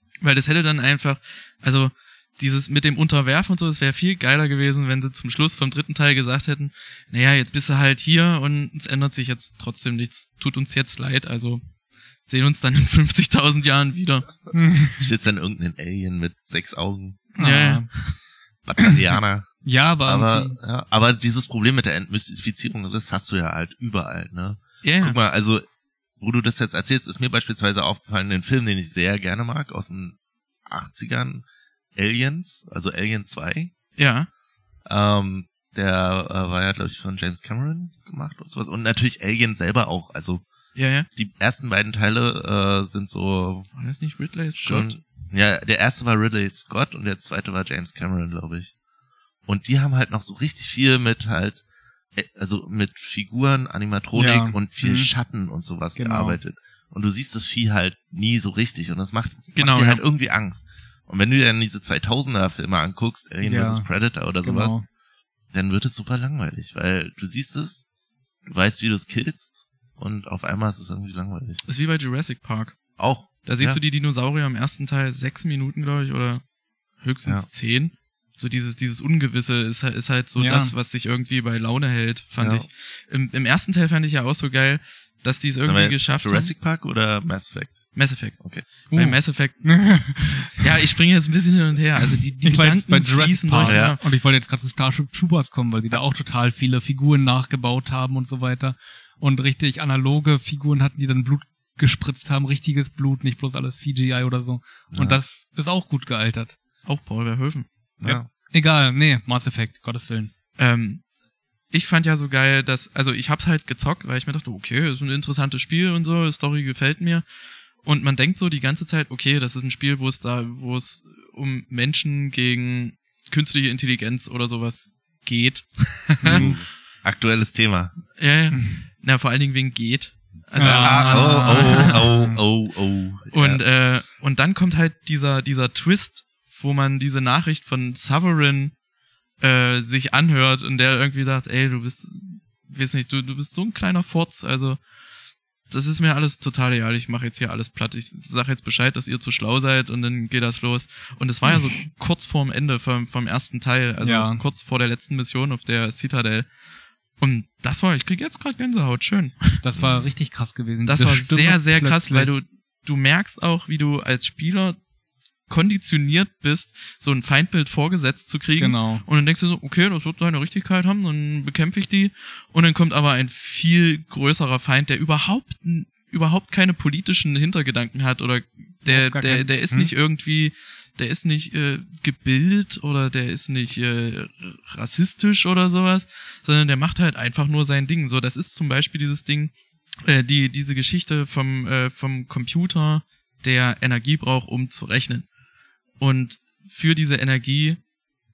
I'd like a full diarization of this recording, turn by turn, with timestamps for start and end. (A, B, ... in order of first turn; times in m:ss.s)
0:00.2-0:11.6 A
0:12.3-0:14.3 A
0:14.5-0:15.1 B
0:15.0-0:17.2 C
0:17.4-0:18.2 A
0:17.4-0:17.9 B
0:18.6-0:19.5 C
0:19.6-0:20.6 B
0:20.0-0:25.6 C
0:24.8-0:25.2 A
0:26.2-0:31.4 C
0:32.0-0:33.7 C
0:34.0-0:34.3 A
0:34.9-0:40.4 C
0:40.8-0:41.1 A
0:41.2-0:43.7 C
0:43.8-0:45.0 A
0:44.6-0:48.7 C
0:49.5-0:51.6 C
0:52.2-1:04.8 C
0:54.2-0:55.1 B
0:56.0-0:56.4 B
0:59.5-1:00.0 A
1:03.4-1:03.9 B
1:04.4-1:04.8 B
1:05.5-1:07.9 C
1:08.4-1:11.6 C
1:11.6-1:12.8 A
1:13.0-1:13.8 C
1:13.4-1:16.4 A
1:17.0-1:26.5 A
1:20.4-1:20.7 B
1:22.4-1:22.7 C
1:25.6-1:28.7 C
1:28.0-1:34.0 A
1:28.9-1:30.5 B
1:32.4-1:46.6 B
1:33.6-1:34.0 C
1:44.9-1:45.2 C
1:46.8-1:47.7 A
1:48.0-1:48.3 C
1:48.0-1:50.3 B
1:50.6-1:51.0 A
1:51.7-1:57.2 A
1:57.8-2:06.4 A
2:06.2-2:06.6 B
2:06.3-2:08.0 C
2:08.2-2:12.1 A
2:08.5-2:08.8 B
2:10.6-2:12.4 B
2:10.6-2:13.6 C
2:13.3-2:18.7 A
2:19.4-2:24.8 A
2:25.7-2:36.5 A
2:34.0-2:34.4 B
2:37.2-2:39.6 A
2:39.6-2:42.4 B
2:39.8-2:40.1 C
2:40.9-2:44.8 A
2:45.5-3:09.5 A
2:48.6-2:49.0 B
2:58.9-2:59.9 B
3:10.0-3:15.3 A
3:16.0-3:17.8 A